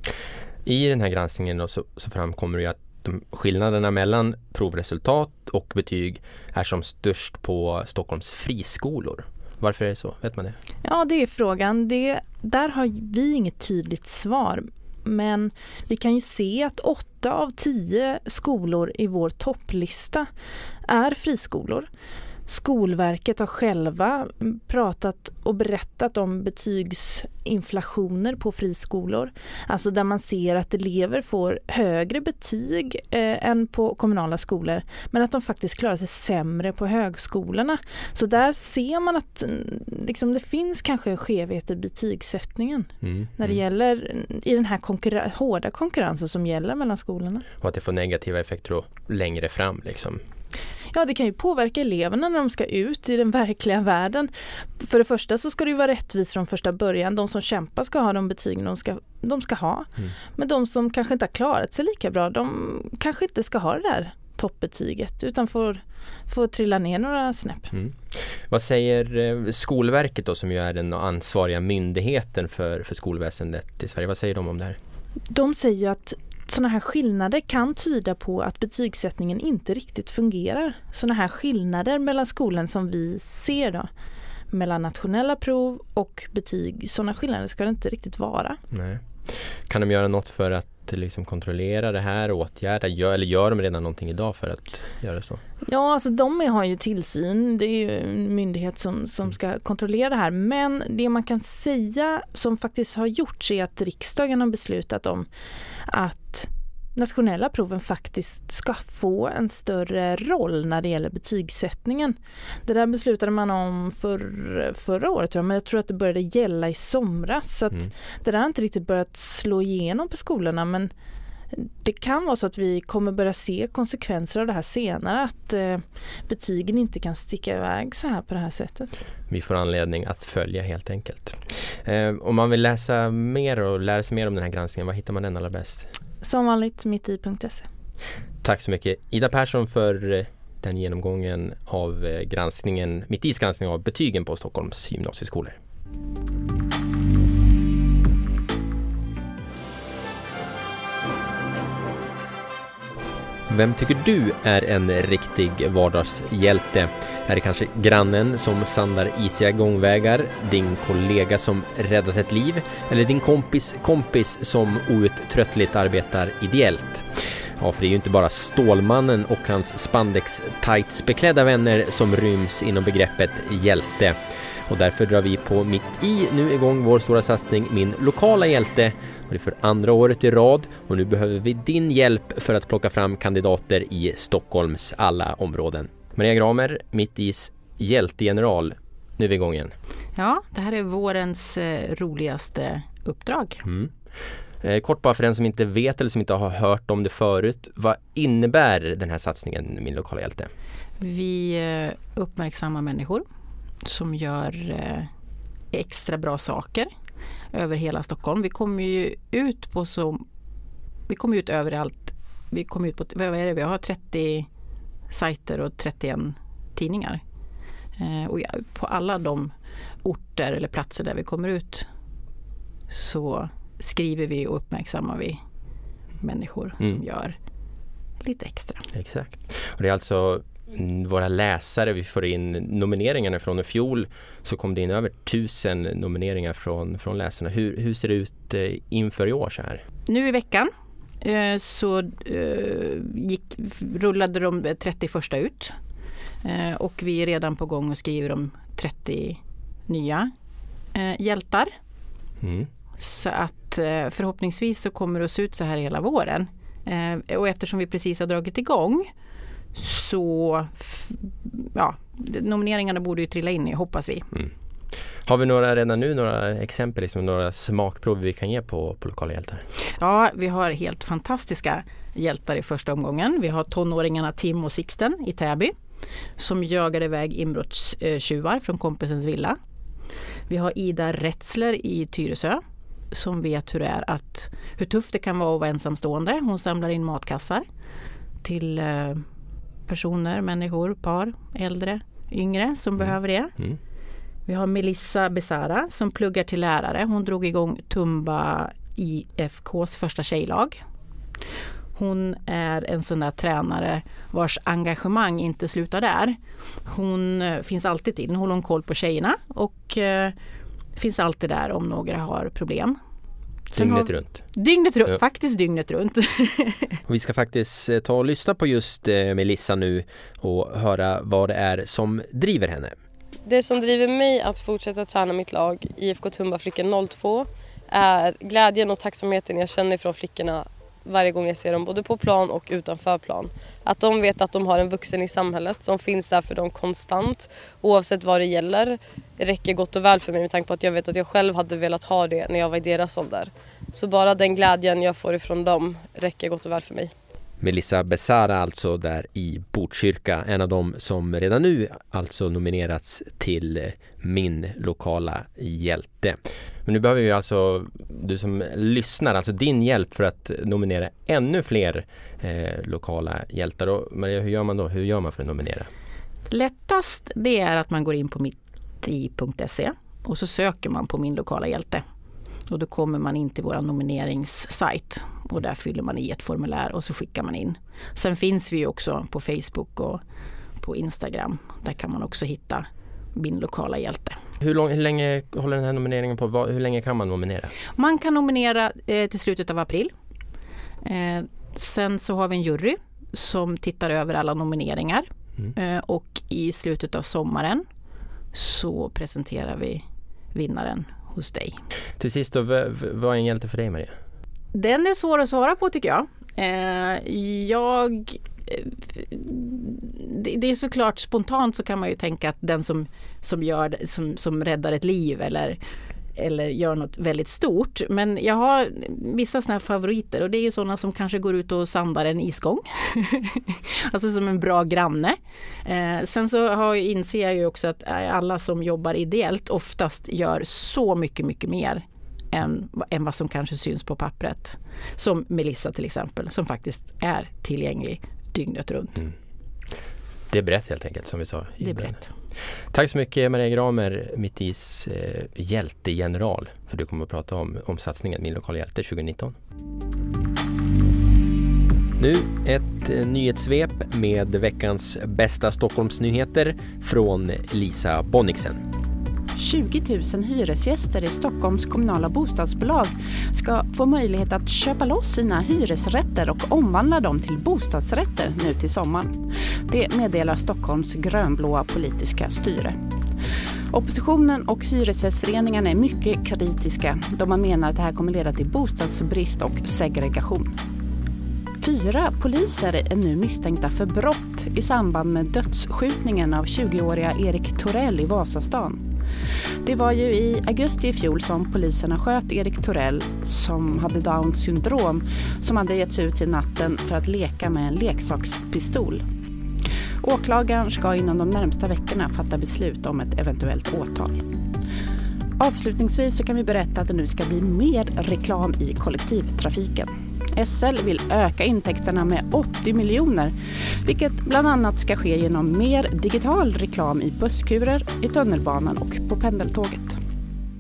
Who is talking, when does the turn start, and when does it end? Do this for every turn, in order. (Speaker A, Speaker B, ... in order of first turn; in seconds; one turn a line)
Speaker A: 0.7-10.6
Speaker B: 10.8-20.3
Speaker B: 20.9-21.9
Speaker B: 22.5-47.5
Speaker A: 43.0-43.6
Speaker A: 47.6-50.2
Speaker B: 50.9-67.7
Speaker A: 68.5-74.8
Speaker B: 75.3-83.9
Speaker B: 84.5-88.6
Speaker A: 88.7-89.0
Speaker A: 89.7-95.4
Speaker B: 95.7-105.3
Speaker B: 105.9-120.9
Speaker B: 121.5-128.9
Speaker A: 129.3-135.9
Speaker B: 136.2-137.7
Speaker A: 138.4-145.6
Speaker A: 153.5-167.1
Speaker A: 167.6-174.2
Speaker A: 174.7-189.7
Speaker C: 190.2-193.6
Speaker A: 193.7-193.9
Speaker A: 194.6-200.5
Speaker C: 201.0-203.2
Speaker C: 203.8-205.1
Speaker C: 205.7-206.9
Speaker C: 207.5-210.2
Speaker C: 211.1-214.5
Speaker C: 215.1-217.2
Speaker C: 218.0-219.5
Speaker C: 220.0-221.9
Speaker C: 222.9-225.4
Speaker C: 226.2-227.4
Speaker C: 228.2-228.9
Speaker A: 228.9-239.8
Speaker C: 240.1-240.7
Speaker C: 241.2-245.8
Speaker C: 246.4-250.3
Speaker C: 250.9-251.7
Speaker A: 252.4-252.7
Speaker C: 253.0-259.1
Speaker C: 259.7-264.4
Speaker A: 265.3-269.6
Speaker C: 270.0-275.7
Speaker C: 276.4-279.6
Speaker C: 280.5-282.6
Speaker C: 283.1-287.6
Speaker C: 288.4-289.2
Speaker C: 289.9-293.5
Speaker A: 293.0-293.8
Speaker C: 294.5-300.8
Speaker C: 302.0-310.4
Speaker C: 311.0-313.0
Speaker A: 313.7-314.5
Speaker C: 313.7-317.0
Speaker A: 317.1-322.9
Speaker D: 323.5-327.4
Speaker D: 328.0-347.1
Speaker A: 347.6-365.9
Speaker C: 366.5-372.0
Speaker C: 372.7-380.2
Speaker C: 380.8-384.4
Speaker A: 384.6-387.7
Speaker C: 387.9-390.1
Speaker C: 391.0-397.8
Speaker C: 398.5-401.8
Speaker A: 402.2-404.1
Speaker C: 404.7-415.8
Speaker C: 416.4-439.2
Speaker A: 440.5-442.2
Speaker C: 441.8-442.2
Speaker A: 442.9-449.6
Speaker A: 452.2-458.8
Speaker E: 459.6-469.4
Speaker E: 469.9-473.0
Speaker E: 473.9-480.7
Speaker E: 481.8-489.0
Speaker E: 489.8-499.2
Speaker E: 500.2-504.5
Speaker E: 505.6-513.5
Speaker E: 514.0-520.2